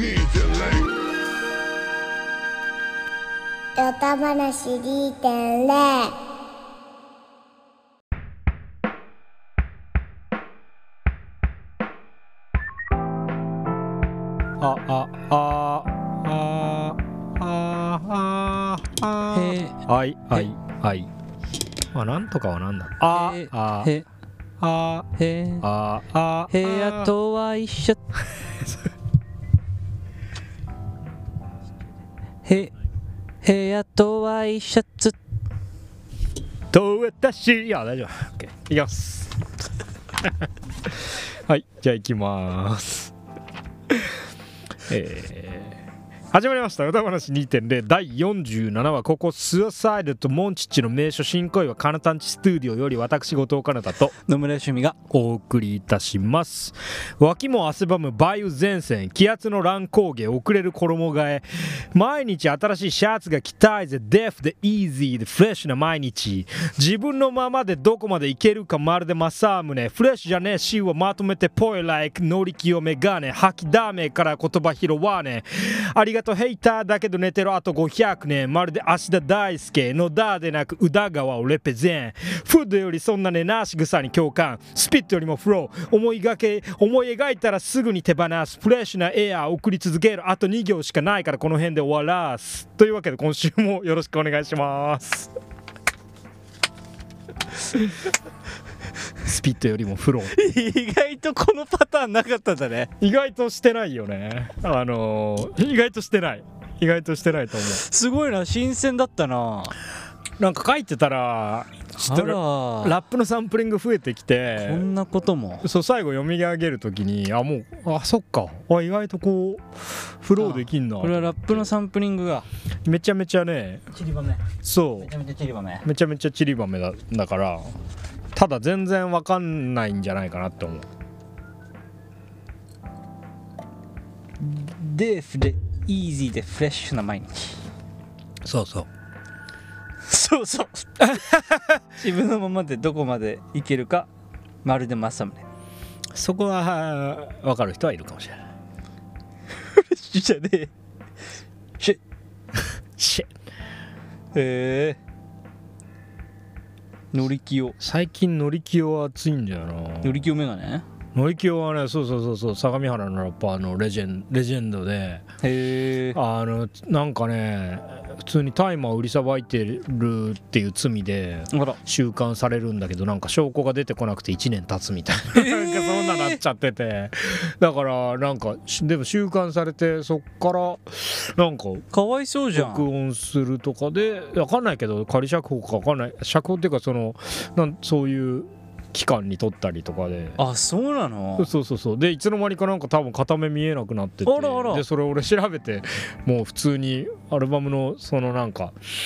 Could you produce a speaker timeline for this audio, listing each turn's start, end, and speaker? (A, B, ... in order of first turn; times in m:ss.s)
0:03.8-0:06.1 A
0:14.6-0:21.1 B
0:19.3-0:19.8 C
0:21.9-0:23.9 B
0:23.1-0:24.0 C
0:24.6-0:25.1 B
0:25.2-0:25.6 C
0:25.6-0:27.1 B
0:26.5-0:28.0 C
0:32.4-0:32.7 C
0:33.4-0:35.2 C
0:36.7-0:39.4 B
0:40.8-0:43.1 B
0:43.9-0:44.1 B
0:44.9-0:45.8 B
0:46.3-0:54.1 B
0:54.2-0:55.0 C
0:55.1-1:35.3 B
1:39.2-1:40.4 B
1:40.3-1:42.9 C
1:43.0-1:47.8 B
1:47.7-1:49.8 C
1:50.4-1:54.8 B
1:52.0-1:53.0 C
1:54.5-1:55.7 C
1:55.6-2:01.7 B
2:00.4-2:02.5 C
2:02.8-2:03.9 B
2:03.9-2:04.4 C
2:04.6-2:05.1 B
2:05.0-2:05.8 C
2:05.8-2:07.7 B
2:08.3-2:10.9 B
2:14.4-2:17.6 C
2:18.4-2:18.9 B
2:20.1-2:21.2 C
2:21.0-2:21.8 B
2:21.9-2:24.1 C
2:24.6-2:25.4 C
2:26.1-2:28.4 B
2:29.7-2:30.7 C
2:33.0-2:33.3 B
2:34.3-2:35.0 C
2:37.1-2:37.8 C
2:37.8-2:40.3 B
2:40.0-2:40.8 C
2:41.1-2:45.2 B
2:45.4-2:46.2 C
2:46.1-3:01.8 B
2:51.5-2:51.8 C
2:55.3-2:56.4 C
3:01.9-3:02.8 C
3:02.5-3:10.4 B
3:10.4-3:11.5 C
3:11.4-3:18.8 B
3:14.2-3:14.8 C